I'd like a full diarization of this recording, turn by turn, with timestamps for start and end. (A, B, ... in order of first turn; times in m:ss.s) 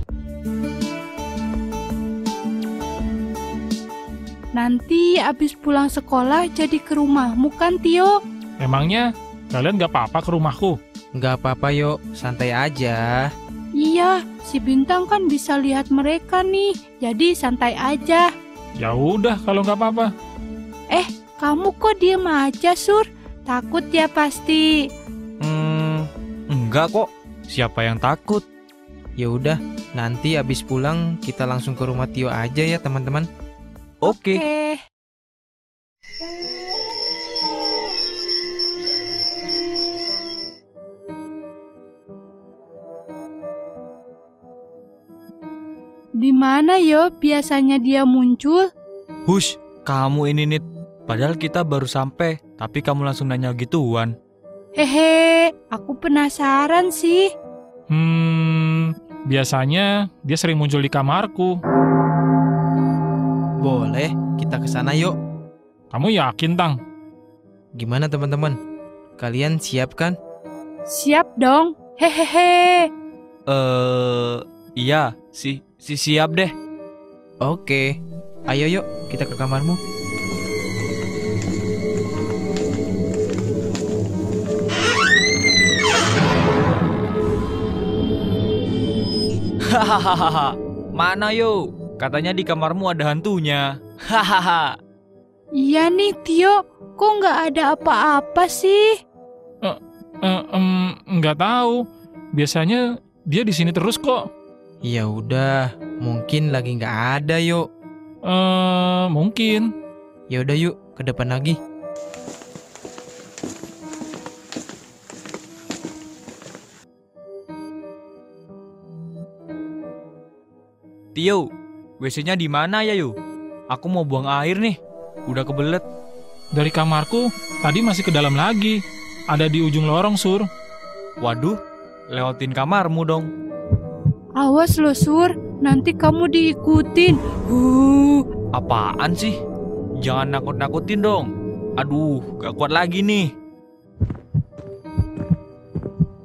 0:04.5-0:08.2 A
0:08.6-0:10.8 B
0:11.1-0:13.3 C
0:13.8-0:18.3 A
0:18.8-0:20.1 B
0:20.9-0:24.6 A
0:25.4-0:28.4 D
0:29.2-0:33.2 C
0:34.0-0:34.4 D
0:34.0-0:34.8 A
0:46.2-0:48.7 A
0:49.3-0:54.1 D
0:54.8-0:57.3 A
0:57.9-1:01.6 B
1:03.6-1:05.1 C
1:05.9-1:06.8 B
1:07.8-1:08.5 C
1:09.2-1:10.1 C
1:10.9-1:12.8 A
1:13.5-1:16.5 D
1:17.4-1:17.9 C
1:18.5-1:19.8 C
1:29.7-1:34.7 D
1:35.6-1:38.9 A
1:39.6-1:41.8 B
1:42.3-1:44.2 B
1:44.8-1:47.6 C
1:48.3-1:49.7 B
1:50.3-1:51.6 C
2:01.1-2:01.4 D
2:02.0-2:03.1 D
2:03.7-2:05.8 D
2:06.5-2:08.8 B
2:09.3-2:10.5 B
2:11.2-2:11.6 D
2:12.1-2:13.3 D
2:14.4-2:18.2 A
2:18.5-2:19.3 D
2:20.0-2:21.3 D
2:21.8-2:23.2 D